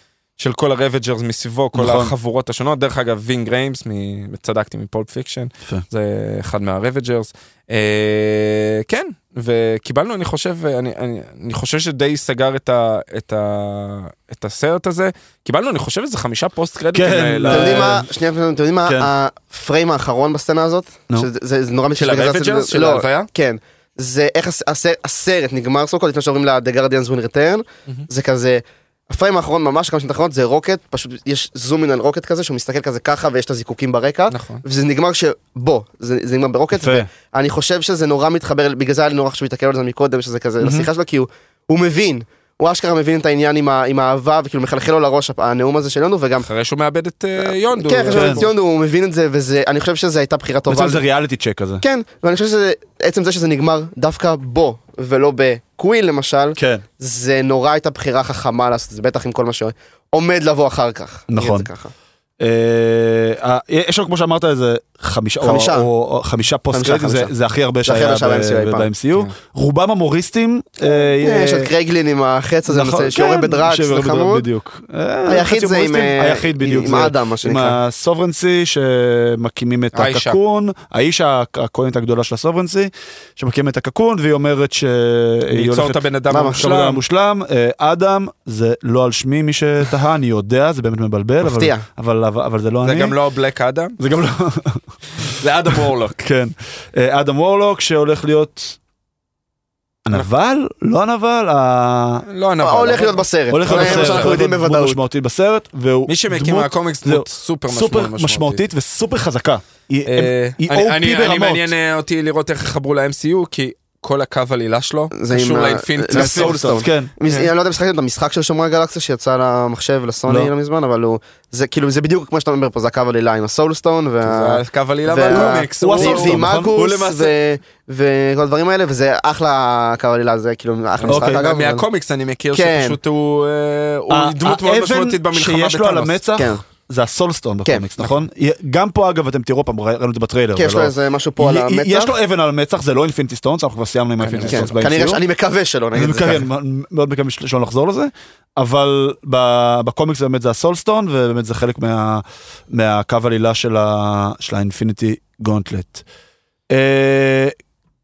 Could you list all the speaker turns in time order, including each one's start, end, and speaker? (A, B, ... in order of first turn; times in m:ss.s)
0:00.4-0:18.0 A
0:01.7-0:02.1 B
0:16.9-0:18.0 B
0:17.5-0:46.5 C
0:18.8-0:19.1 B
0:22.0-0:23.3 A
0:34.3-0:34.6 A
0:36.7-0:37.1 B
0:40.6-0:40.9 B
0:46.4-0:48.5 A
0:47.7-0:51.0 C
0:48.1-0:48.4 B
0:50.7-0:51.8 B
0:51.8-1:01.9 C
0:56.6-0:56.8 B
1:01.3-1:01.7 B
1:02.4-1:11.7 B
1:05.4-1:05.9 C
1:06.7-1:07.3 C
1:07.8-1:08.9 C
1:11.2-1:14.4 C
1:12.7-1:26.0 B
1:15.3-1:17.8 C
1:19.9-1:20.4 A
1:25.5-1:27.0 A
1:26.3-1:26.8 C
1:26.5-1:33.2 B
1:31.4-1:31.8 C
1:32.8-1:34.0 A
1:34.0-1:38.8 B
1:35.4-1:36.2 A
1:40.0-1:42.2 B
1:42.2-1:44.4 A
1:42.6-1:45.0 C
1:43.5-1:51.7 B
1:46.1-1:48.6 A
1:50.0-1:57.5 A
1:55.1-2:11.8 C
1:56.1-1:57.1 B
2:00.3-2:00.5 B
2:04.2-2:07.3 A
2:05.3-2:06.7 B
2:11.0-2:16.2 A
2:11.0-2:11.4 B
2:12.5-2:13.0 C
2:14.1-2:25.2 B
2:16.4-2:16.6 C
2:20.6-2:22.1 C
2:24.2-2:24.8 A
2:24.4-2:26.5 C
2:25.9-2:36.0 B
2:36.7-2:37.6 B